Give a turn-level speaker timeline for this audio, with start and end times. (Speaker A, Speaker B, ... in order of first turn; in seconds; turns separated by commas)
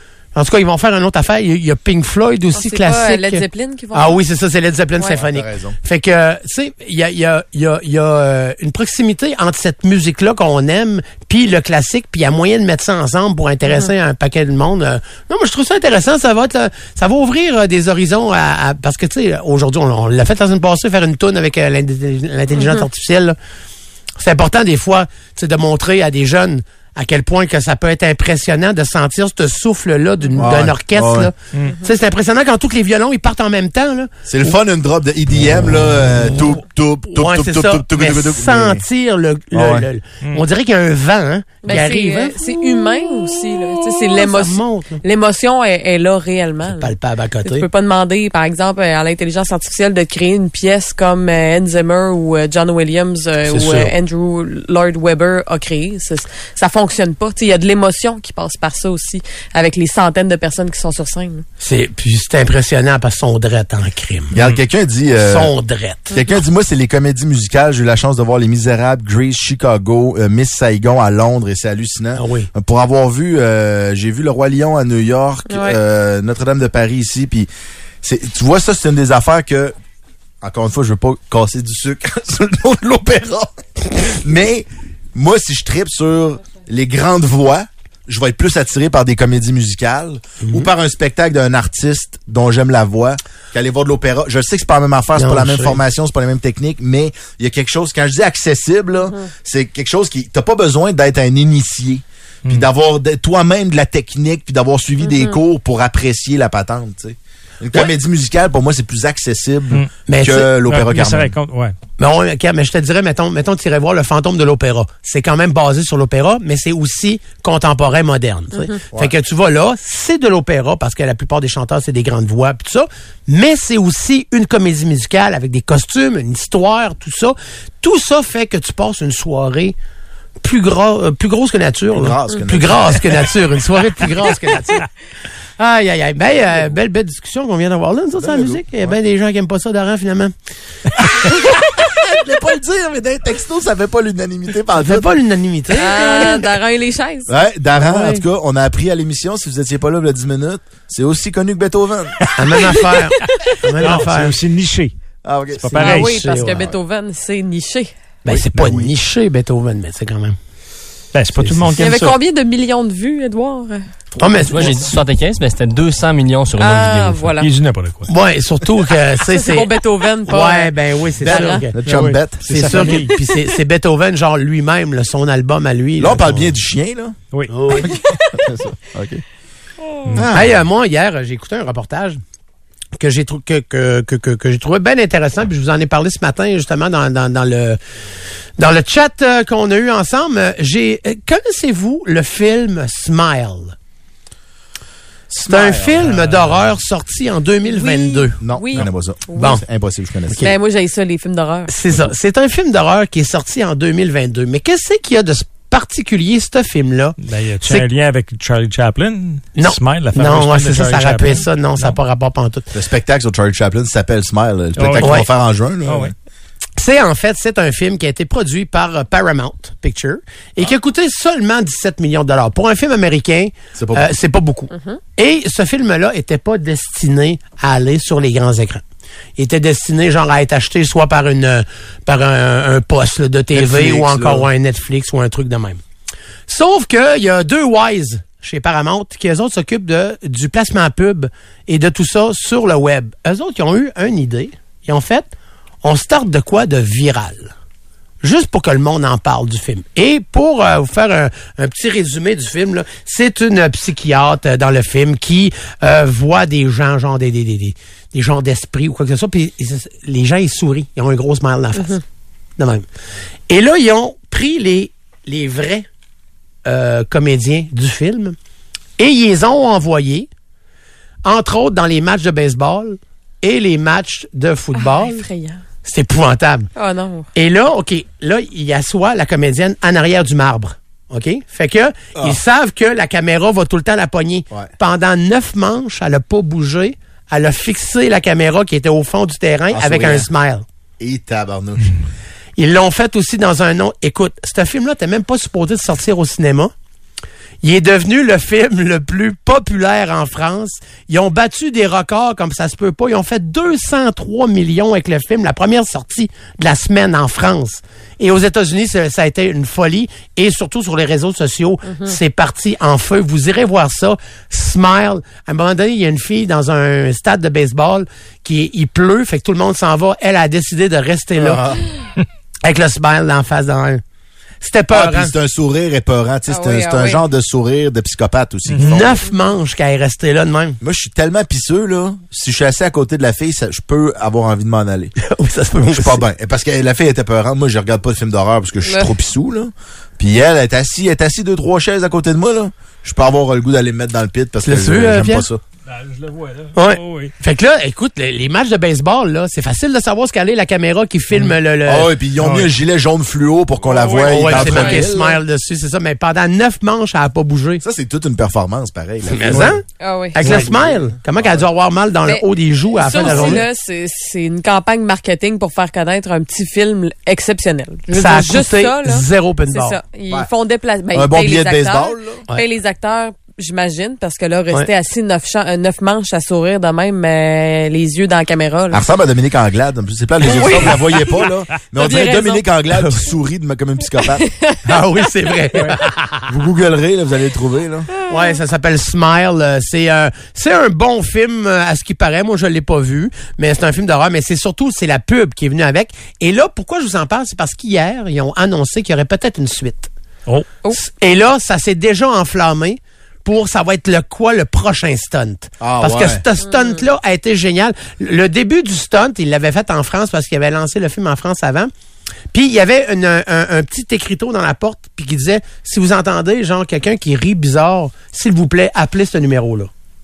Speaker A: 0.3-23.4, Speaker B: 2.5-4.2, Speaker C: 5.1-5.8, Speaker B: 13.7-13.9, Speaker B: 22.5-22.9, Speaker A: 24.2-34.5, Speaker C: 30.4-31.3, Speaker B: 31.6-31.9, Speaker C: 34.3-38.9, Speaker A: 37.1-42.4, Speaker C: 39.5-39.9, Speaker B: 41.6-46.9, Speaker A: 43.3-45.0, Speaker A: 46.6-47.7, Speaker B: 47.5-61.5, Speaker A: 53.5-53.9, Speaker A: 61.6-64.3, Speaker C: 64.3-65.5, Speaker A: 65.1-66.2, Speaker C: 66.1-77.5, Speaker A: 72.2-72.5, Speaker B: 75.5-75.8, Speaker C: 78.0-79.8, Speaker C: 80.4-111.3, Speaker A: 90.4-90.7, Speaker A: 95.2-95.8, Speaker B: 105.0-105.4, Speaker A: 110.1-110.5, Speaker D: 110.7-111.8, Speaker A: 112.0-129.8, Speaker B: 118.5-118.8, Speaker C: 118.8-119.1, Speaker A: 130.4-134.9, Speaker C: 131.9-133.3, Speaker A: 135.6-140.3, Speaker C: 138.2-139.0, Speaker C: 141.0-145.2, Speaker A: 144.8-146.5, Speaker B: 145.7-147.3, Speaker C: 147.3-152.2, Speaker A: 147.8-148.2, Speaker A: 152.4-154.4, Speaker D: 153.8-154.9, Speaker C: 155.2-156.8, Speaker D: 155.5-156.3, Speaker A: 155.8-156.7, Speaker B: 155.8-157.9, Speaker A: 158.2-160.4, Speaker C: 158.3-158.8, Speaker D: 158.5-158.9, Speaker D: 161.1-162.2, Speaker A: 161.4-161.7, Speaker B: 161.8-163.8, Speaker C: 164.2-164.4, Speaker A: 164.2-164.8, Speaker E: 164.4-167.3, Speaker B: 166.6-167.5, Speaker D: 167.4-168.1, Speaker A: 168.1-171.7, Speaker B: 169.3-171.7, Speaker C: 171.2-172.9, Speaker D: 171.8-173.2, Speaker A: 172.5-176.5, Speaker C: 176.0-177.2, Speaker A: 177.5-178.0, Speaker C: 177.7-179.2, Speaker C: 180.2-180.6, Speaker A: 180.2-182.2, Speaker A: 183.0-187.8, Speaker A: 188.6-193.8, Speaker C: 195.3-196.5, Speaker A: 195.5-198.4, Speaker B: 197.7-199.6, Speaker C: 198.4-200.5, Speaker A: 199.4-199.6, Speaker B: 200.4-201.7, Speaker A: 201.7-207.9, Speaker D: 207.2-212.0, Speaker A: 209.6-212.7, Speaker C: 212.7-216.1, Speaker D: 214.8-215.3, Speaker A: 215.0-215.3, Speaker D: 215.9-216.1, Speaker A: 216.8-228.8, Speaker C: 223.8-224.1, Speaker B: 224.7-225.0, Speaker A: 229.4-235.8, Speaker C: 233.5-234.5, Speaker A: 236.5-245.3, Speaker A: 245.8-247.5, Speaker A: 248.2-262.0, Speaker B: 261.8-262.0, Speaker A: 262.6-262.9, Speaker A: 263.5-265.9, Speaker A: 266.6-268.4, Speaker A: 269.0-270.3, Speaker A: 271.2-275.2, Speaker B: 274.8-275.6, Speaker A: 275.8-276.7, Speaker B: 276.8-277.3, Speaker A: 277.4-290.6, Speaker C: 282.1-282.4, Speaker C: 289.7-290.3, Speaker C: 291.0-292.0, Speaker A: 292.6-296.7, Speaker A: 297.6-321.6, Speaker B: 311.9-312.2, Speaker C: 321.4-321.8, Speaker A: 322.6-324.0, Speaker A: 324.6-325.3, Speaker C: 324.9-329.2, Speaker B: 326.5-327.2, Speaker D: 328.7-329.0, Speaker A: 328.8-330.8, Speaker C: 330.8-335.1, Speaker A: 335.2-336.2, Speaker C: 335.9-345.6, Speaker B: 338.8-339.1, Speaker A: 344.6-345.5, Speaker D: 345.9-347.3, Speaker A: 346.8-352.1, Speaker C: 351.9-355.4, Speaker D: 352.4-352.7, Speaker D: 353.9-354.6, Speaker B: 354.1-355.1, Speaker A: 354.2-357.8, Speaker C: 357.8-359.8, Speaker A: 359.3-359.8, Speaker B: 360.0-360.5, Speaker A: 360.4-363.7, Speaker C: 360.4-361.6, Speaker B: 362.2-379.0, Speaker C: 363.2-363.6, Speaker A: 368.1-370.0, Speaker C: 371.1-372.4, Speaker C: 378.9-384.4, Speaker B: 380.4-381.4, Speaker B: 382.0-382.7, Speaker B: 384.2-384.8, Speaker A: 384.9-386.5, Speaker C: 386.5-388.1, Speaker B: 388.2-388.6, Speaker A: 388.3-400.1, Speaker A: 400.9-411.9, Speaker C: 405.8-406.4, Speaker B: 406.6-407.0, Speaker A: 412.5-419.9